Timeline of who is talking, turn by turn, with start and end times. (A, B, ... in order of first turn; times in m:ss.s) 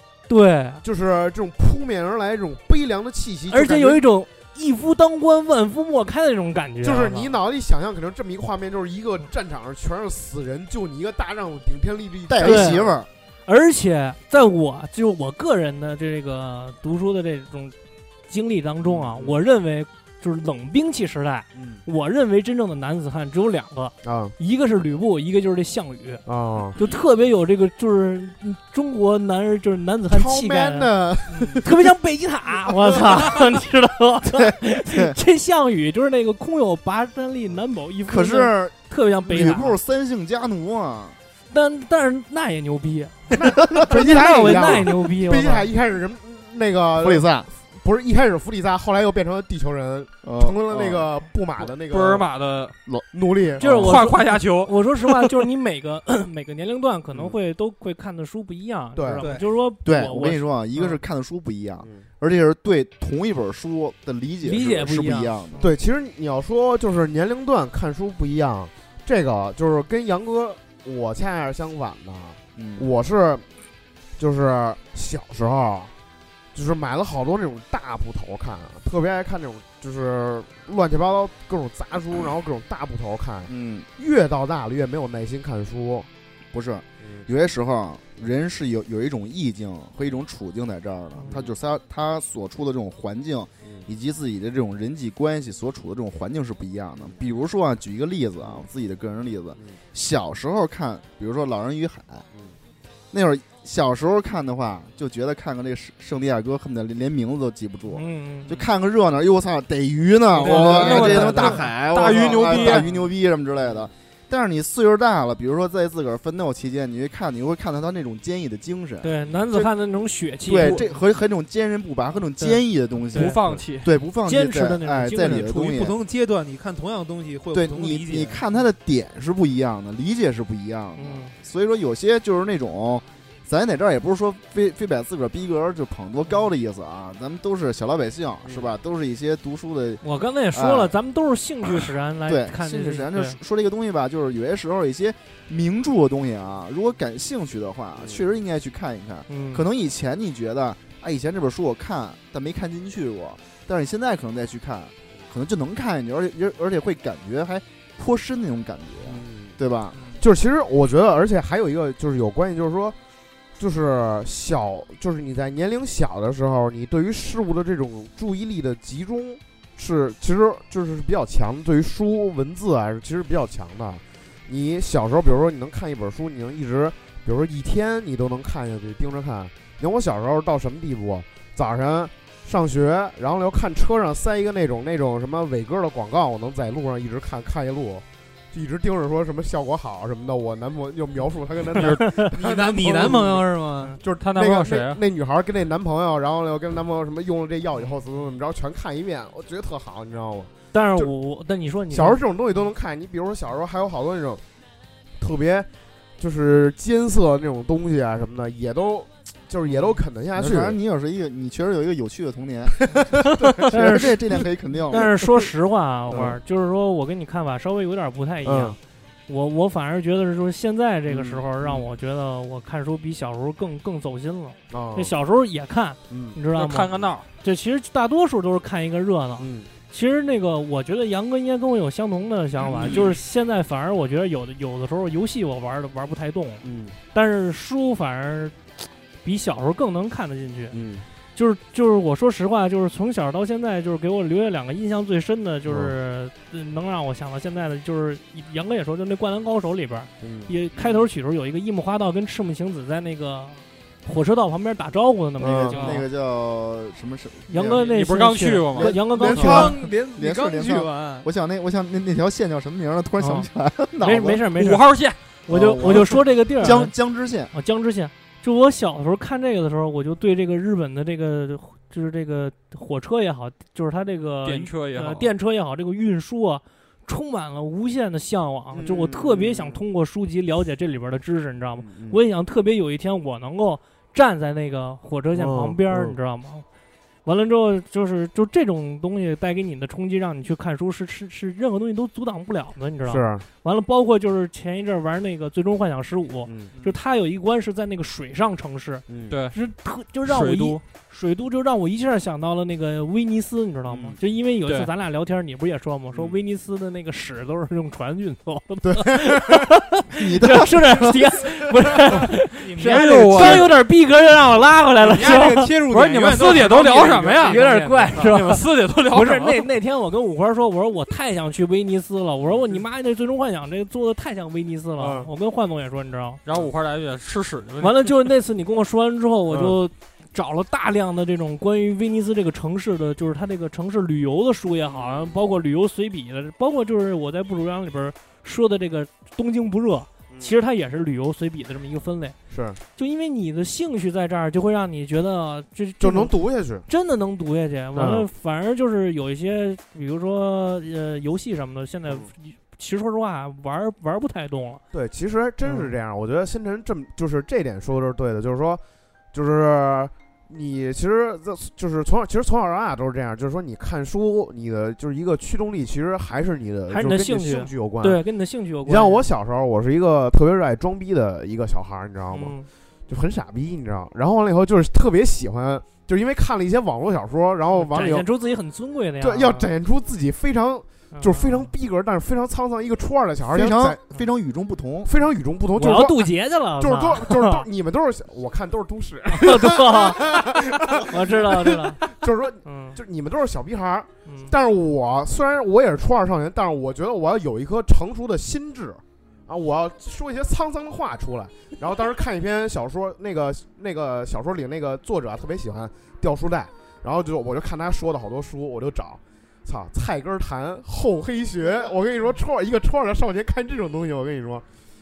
0:00.3-0:00.8 A
0:00.8-0:04.0 B
0:03.5-0:07.3 A
0:06.8-0:13.0 B
0:12.3-0:13.1 C
0:12.4-0:12.8 A
0:13.4-0:17.7 A
0:18.3-0:26.2 A
0:18.8-0:19.4 B
0:21.5-0:21.8 B
0:24.0-0:24.3 B
0:26.2-0:26.8 B
0:26.7-0:30.9 A
0:30.1-0:31.7 B
0:31.6-0:39.8 A
0:32.8-0:33.4 B
0:34.4-0:35.1 C
0:38.1-0:41.2 C
0:41.5-0:45.7 A
0:43.3-0:52.2 B
0:47.0-0:47.5 C
0:50.2-0:51.1 C
0:51.6-0:52.8 D
0:53.1-0:53.9 B
0:53.6-1:00.9 A
0:53.6-0:54.7 D
0:58.9-0:59.3 B
0:59.2-0:59.5 E
0:59.8-1:05.6 C
1:01.8-1:02.0 B
1:04.4-1:05.7 A
1:05.6-1:13.5 B
1:12.6-1:12.9 C
1:14.2-1:15.9 B
1:16.5-1:26.1 B
1:23.5-1:23.9 C
1:26.5-1:42.2 C
1:31.3-1:31.5 B
1:43.1-1:59.7 C
1:47.9-1:48.5 A
1:50.4-1:52.9 D
1:50.4-1:51.6 E
1:50.4-1:51.6 A
1:52.1-1:52.8 E
1:59.0-2:00.8 A
2:00.5-2:06.0 C
2:00.6-2:00.8 E
2:03.1-2:03.9 D
2:03.1-2:03.4 A
2:04.2-2:05.5 A
2:05.2-2:08.4 E
2:07.5-2:20.0 C
2:11.0-2:11.3 A
2:20.0-2:23.4 A
2:20.5-2:20.9 C
2:22.3-2:40.0 C
2:28.0-2:28.2 B
2:29.3-2:29.6 A
2:39.0-2:39.6 B
2:39.9-2:40.2 D
2:40.2-2:43.0 B
2:43.6-3:13.5 B
3:11.8-3:14.0 E
3:11.8-3:12.3 A
3:14.0-3:21.1 B
3:14.0-3:15.0 D
3:20.7-3:22.2 A
3:21.9-3:24.4 B
3:25.2-3:25.7 B
3:26.2-3:30.8 B
3:30.4-3:35.1 C
3:32.8-3:33.6 B
3:33.5-3:34.2 A
3:34.9-4:00.8 A
3:36.1-3:36.4 B
3:38.4-3:38.8 B
3:41.1-3:41.9 B
3:44.7-3:45.1 B
3:46.1-3:46.4 B
3:46.5-3:47.2 D
3:49.4-3:49.7 B
3:56.6-3:57.0 B
4:00.7-4:01.0 B
4:01.3-4:16.0 A
4:05.6-4:05.9 B
4:10.2-4:10.5 B
4:10.8-4:11.0 D
4:15.4-4:15.8 B
4:15.4-4:17.9 C
4:15.8-4:16.0 D
4:17.5-4:19.8 A
4:17.8-4:19.0 D
4:18.7-4:24.4 C
4:19.2-4:21.3 E
4:23.2-4:23.5 A
4:24.0-4:24.8 A
4:24.6-4:25.2 D
4:25.5-4:26.9 A
4:25.5-4:27.5 C
4:25.8-4:26.1 D
4:27.5-4:46.6 A
4:34.4-4:35.3 D
4:38.7-4:39.8 B
4:41.8-4:42.2 B
4:45.3-4:46.2 B
4:47.2-5:26.4 A
4:53.0-4:53.4 B
4:56.4-4:56.7 B
4:59.1-4:59.4 B
4:59.3-4:59.6 D
5:00.2-5:00.8 D
5:10.1-5:11.2 C
5:12.4-5:13.7 E
5:12.8-5:13.7 D
5:15.0-5:18.6 E
5:16.2-5:19.7 D
5:26.4-5:28.1 D
5:27.8-5:42.4 A
5:29.5-5:29.8 B
5:34.9-5:35.3 B
5:42.5-5:42.8 B
5:43.0-5:46.3 A
5:46.0-5:46.8 B
5:46.9-5:54.8 A
5:47.9-5:48.3 B
5:54.9-5:58.8 B
5:55.6-5:55.9 A
5:59.3-6:08.2 B
6:06.9-6:09.2 A
6:08.8-6:12.6 B
6:12.3-6:12.7 A
6:13.1-6:18.3 B
6:17.7-6:19.7 A
6:19.2-6:24.0 B
6:21.1-6:21.7 A
6:23.5-6:25.1 C
6:25.0-6:54.6 B
6:25.8-6:27.6 A
6:29.3-6:30.4 A
6:31.0-6:32.0 A
6:32.6-6:33.0 A
6:34.2-6:34.5 A